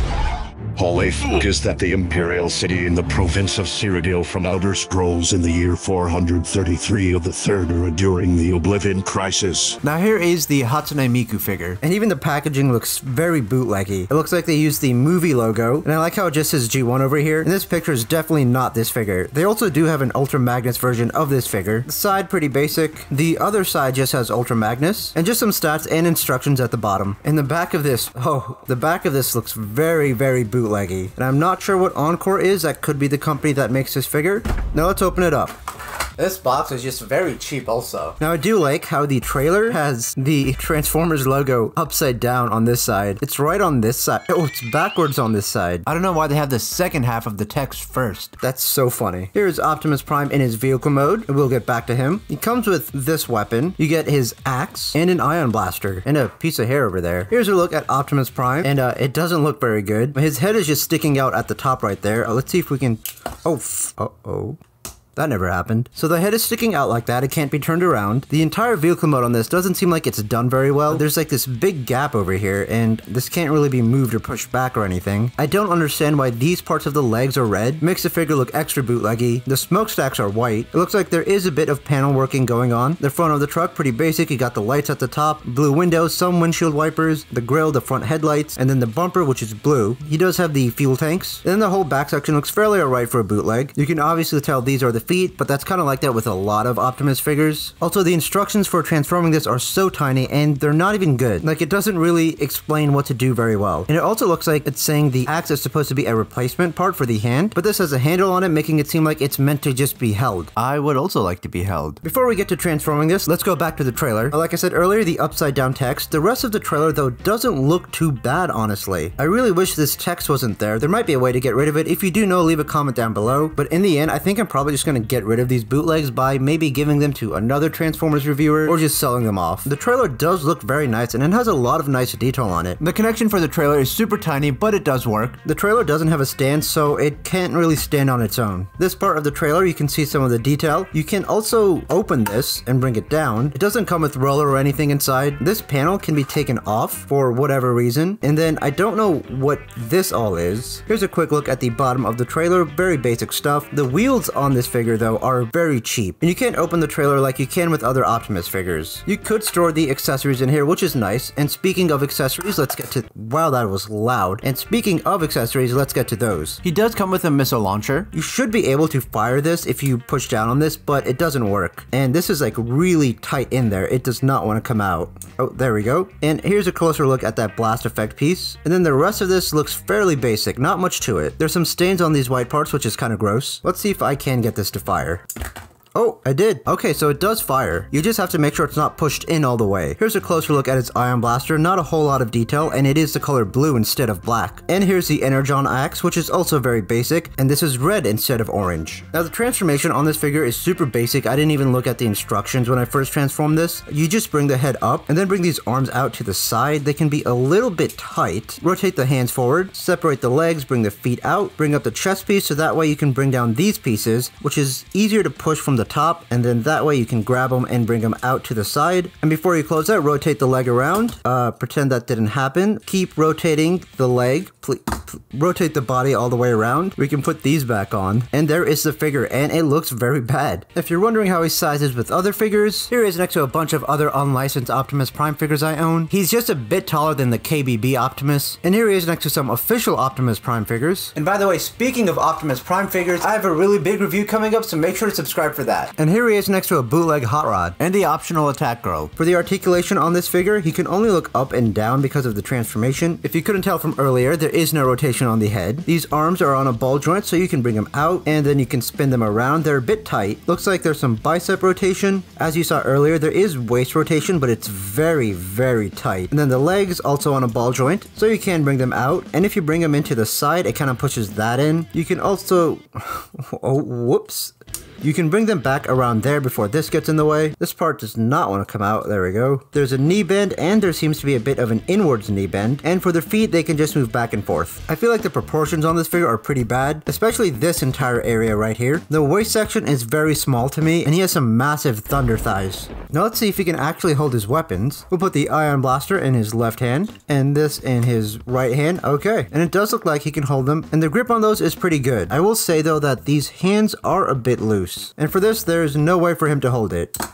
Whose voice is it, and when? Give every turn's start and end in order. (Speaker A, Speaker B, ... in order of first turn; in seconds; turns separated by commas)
Speaker A: 0.8-9.8, Speaker B: 9.8-11.8, Speaker C: 11.8-35.5, Speaker B: 36.2-38.2, Speaker C: 38.2-45.9, Speaker B: 45.9-48.4, Speaker C: 48.4-64.6, Speaker C: 65.2-110.5, Speaker B: 110.5-112.0, Speaker C: 112.0-132.8, Speaker B: 113.8-114.1, Speaker B: 128.0-128.7, Speaker B: 132.8-135.4, Speaker C: 135.4-166.6, Speaker B: 166.6-168.1, Speaker C: 168.1-185.2, Speaker C: 185.9-236.1, Speaker B: 236.1-238.6, Speaker C: 238.6-241.1, Speaker B: 241.1-246.0, Speaker C: 246.0-247.8, Speaker B: 247.8-249.1, Speaker C: 249.2-307.1